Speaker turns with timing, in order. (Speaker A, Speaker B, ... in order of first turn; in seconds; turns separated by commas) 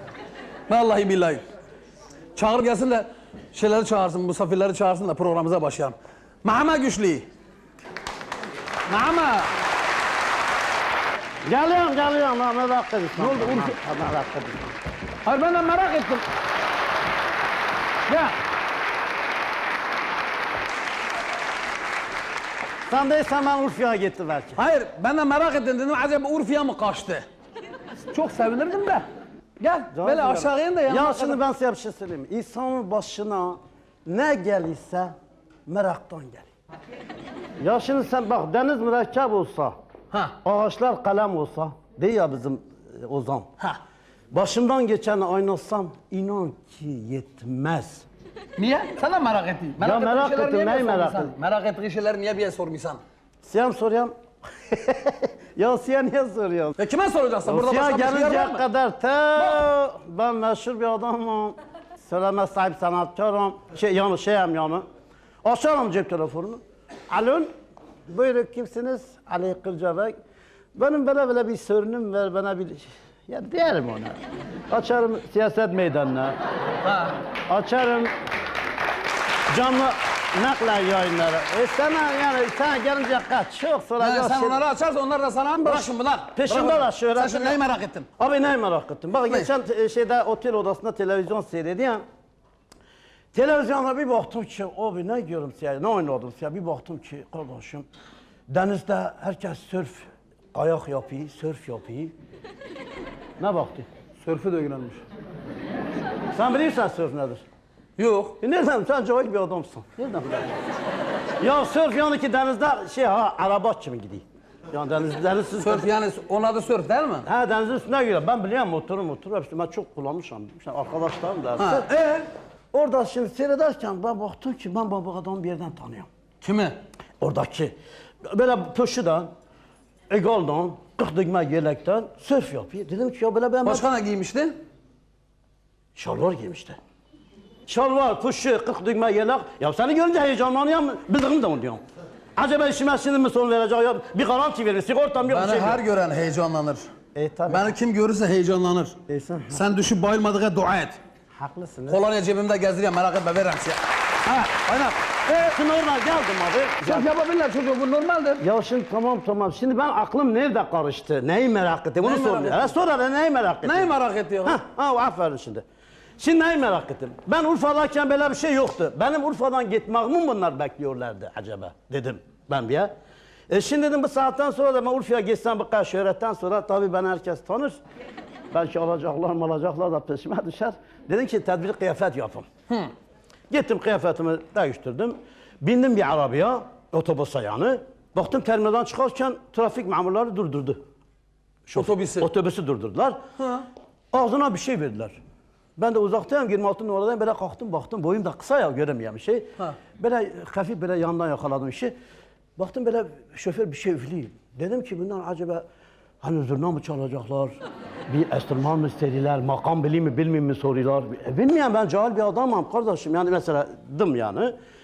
Speaker A: 0.7-1.4, Speaker A: 2.4-7.2, Speaker A: 8.9-9.5, Speaker B: 11.5-14.7, Speaker A: 13.2-13.8, Speaker A: 15.2-16.2, Speaker A: 18.1-18.4, Speaker B: 22.9-24.6, Speaker A: 24.6-27.3, Speaker A: 28.1-29.1, Speaker A: 29.6-31.4, Speaker B: 29.9-35.1, Speaker B: 35.7-36.5, Speaker B: 37.6-39.8, Speaker A: 40.1-40.4, Speaker B: 40.4-43.5, Speaker B: 44.3-48.0, Speaker A: 48.6-53.0, Speaker B: 49.8-51.3, Speaker B: 53.4-56.8, Speaker A: 56.8-58.6, Speaker B: 57.5-64.8, Speaker A: 59.4-59.6, Speaker B: 65.4-67.5, Speaker B: 68.1-70.1, Speaker B: 70.8-74.2, Speaker B: 74.7-76.4, Speaker A: 76.8-77.2, Speaker B: 77.5-78.1, Speaker B: 79.5-84.6, Speaker A: 84.0-88.1, Speaker B: 85.6-87.6, Speaker B: 88.2-92.0, Speaker B: 93.3-97.9, Speaker B: 98.5-102.1, Speaker B: 103.4-103.9, Speaker A: 104.2-105.0, Speaker B: 106.3-107.4, Speaker A: 108.0-108.4, Speaker B: 108.4-110.5, Speaker B: 111.4-115.9, Speaker A: 115.6-117.3, Speaker B: 117.2-121.9, Speaker A: 121.6-122.3, Speaker B: 122.7-126.1, Speaker A: 126.4-126.8, Speaker B: 127.2-127.7, Speaker B: 128.3-129.3, Speaker B: 130.1-133.9, Speaker A: 133.7-134.6, Speaker B: 136.0-136.8, Speaker B: 137.7-141.8, Speaker B: 142.4-145.8, Speaker A: 145.2-146.9, Speaker B: 147.2-147.8, Speaker A: 147.5-149.0, Speaker B: 149.1-149.6, Speaker A: 149.5-151.0, Speaker B: 151.3-152.0, Speaker A: 151.9-155.5, Speaker B: 155.3-157.1, Speaker A: 156.8-158.4, Speaker B: 158.4-165.6, Speaker A: 162.0-162.7, Speaker A: 163.6-164.6, Speaker B: 166.2-172.9, Speaker B: 173.5-177.8, Speaker B: 178.5-182.5, Speaker B: 183.5-190.8, Speaker B: 191.7-193.2, Speaker A: 191.8-192.3, Speaker A: 193.4-193.7, Speaker B: 194.1-195.2, Speaker B: 195.8-201.9, Speaker B: 202.6-205.6, Speaker B: 206.2-207.6, Speaker B: 208.1-214.5